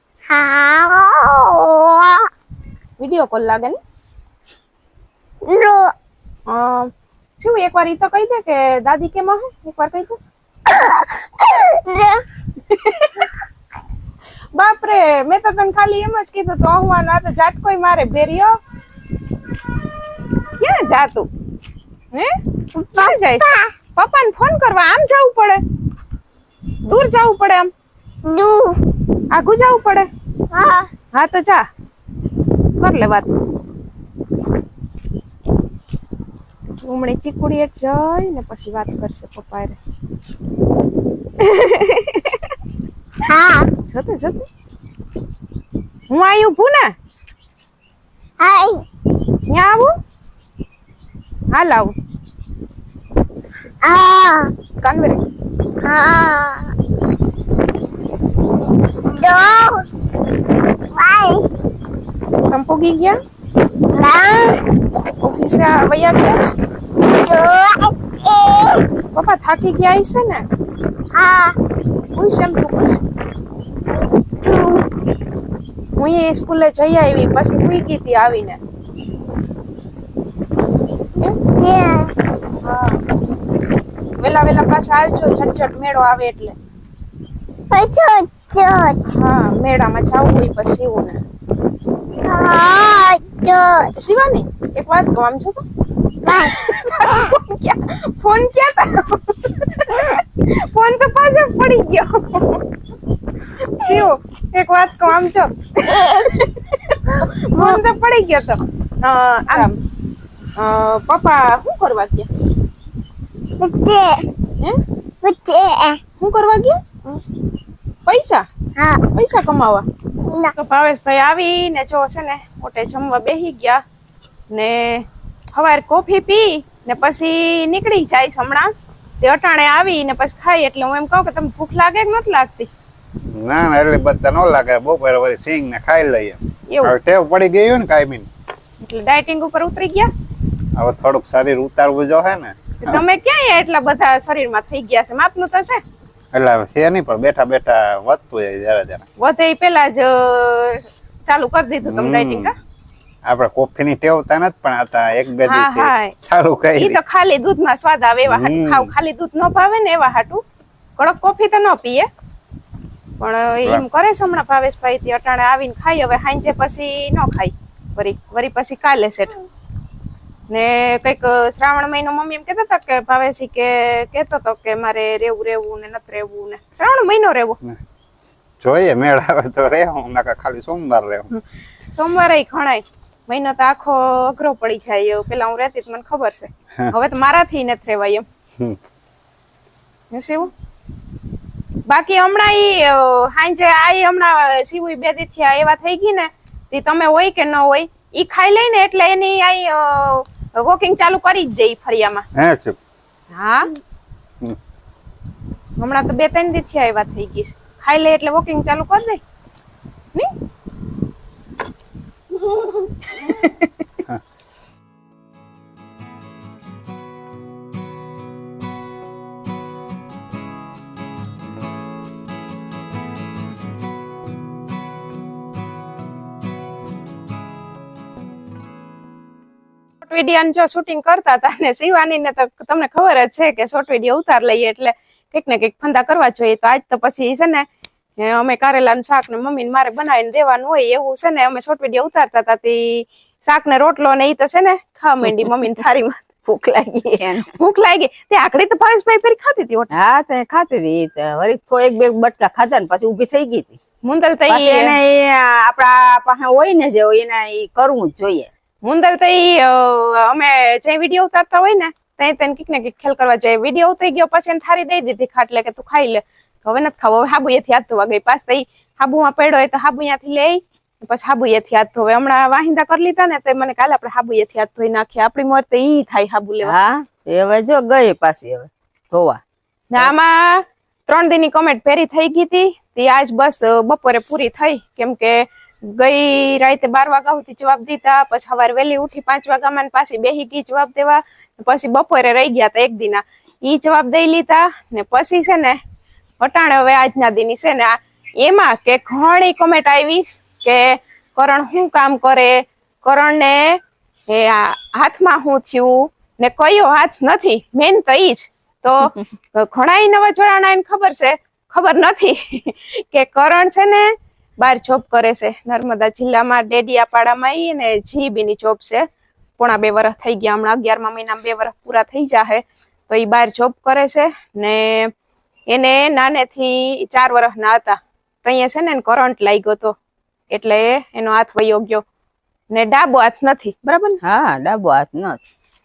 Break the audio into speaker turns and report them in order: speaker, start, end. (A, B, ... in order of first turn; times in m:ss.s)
0:00.3-0:02.3 A
0:03.0-0:03.8 B
0:05.4-0:05.9 A
0:06.5-0:10.2 B
0:10.7-0:12.2 A
0:12.7-0:13.3 B
0:14.5-0:18.6 B
0:20.6-0:21.3 B
0:22.7-0:23.7 A
0:23.0-0:25.6 B
0:26.8-0:27.7 B
0:28.2-0:28.8 A
0:29.3-0:30.1 B
0:30.5-0:30.9 A
0:31.1-0:31.6 B
0:32.8-0:33.4 B
0:36.8-0:39.8 B
0:41.4-0:42.5 B
0:43.2-0:43.7 A
0:43.8-0:44.5 B
0:46.1-0:46.9 B
0:48.4-0:48.8 A
0:49.5-0:49.9 B
0:51.5-0:51.9 B
0:53.8-0:54.5 A
0:54.8-0:55.2 B
0:55.8-0:56.7 A
0:59.1-0:59.8 A
1:00.9-1:01.4 A
1:02.5-1:03.2 B
1:03.9-1:04.6 A
1:05.2-1:06.6 B
1:07.0-1:08.9 A
1:09.1-1:10.4 B
1:11.1-1:11.6 A
1:12.1-1:13.0 B
1:14.4-1:14.8 A
1:16.0-1:18.6 B
1:21.5-1:22.1 A
1:22.6-1:23.0 B
1:24.2-1:26.6 B
1:27.7-1:29.0 A
1:29.1-1:31.2 B
1:32.2-1:33.9 A
1:34.0-1:35.6 B
1:36.2-1:37.1 A
1:36.5-1:42.6 B
1:43.6-1:49.8 B
1:45.9-1:46.5 A
1:47.1-1:47.8 A
1:50.6-1:52.3 B
1:53.6-1:54.3 A
1:55.2-1:56.0 A
1:56.2-1:56.8 B
1:58.0-1:58.4 B
1:58.8-1:59.0 A
1:59.1-1:59.8 B
2:00.2-2:00.5 A
2:00.5-2:03.8 B
2:04.5-2:12.7 B
2:13.2-2:18.3 C
2:16.7-2:16.9 B
2:18.8-2:20.1 B
2:20.8-2:23.0 C
2:22.8-2:25.8 B
2:26.3-2:29.0 C
2:29.2-2:32.6 B
2:31.8-2:32.5 C
2:33.2-2:37.0 C
2:35.4-2:36.1 B
2:36.8-2:40.4 B
2:38.3-2:38.9 C
2:41.0-2:42.1 B
2:43.2-2:49.4 B
2:50.5-2:57.6 B
2:58.6-3:01.3 C
3:01.9-3:08.2 B
3:10.1-3:10.5 B
3:11.9-3:22.2 B
3:22.3-3:22.8 C
3:23.3-3:23.7 B
3:25.8-3:29.2 B
3:33.1-3:33.7 B
3:50.0-3:57.6 B
3:58.2-4:09.9 B
4:07.1-4:07.5 D
4:09.9-4:13.8 D
4:14.0-4:15.0 B
4:14.5-4:18.5 D
4:18.8-4:36.7 B
4:36.6-4:39.4 D
4:39.9-4:55.8 B
4:56.4-5:19.0 B
5:19.6-5:25.1 B
5:25.7-5:30.0 B
5:30.5-5:32.0 B
5:32.7-5:34.2 B
5:34.2-5:35.4 D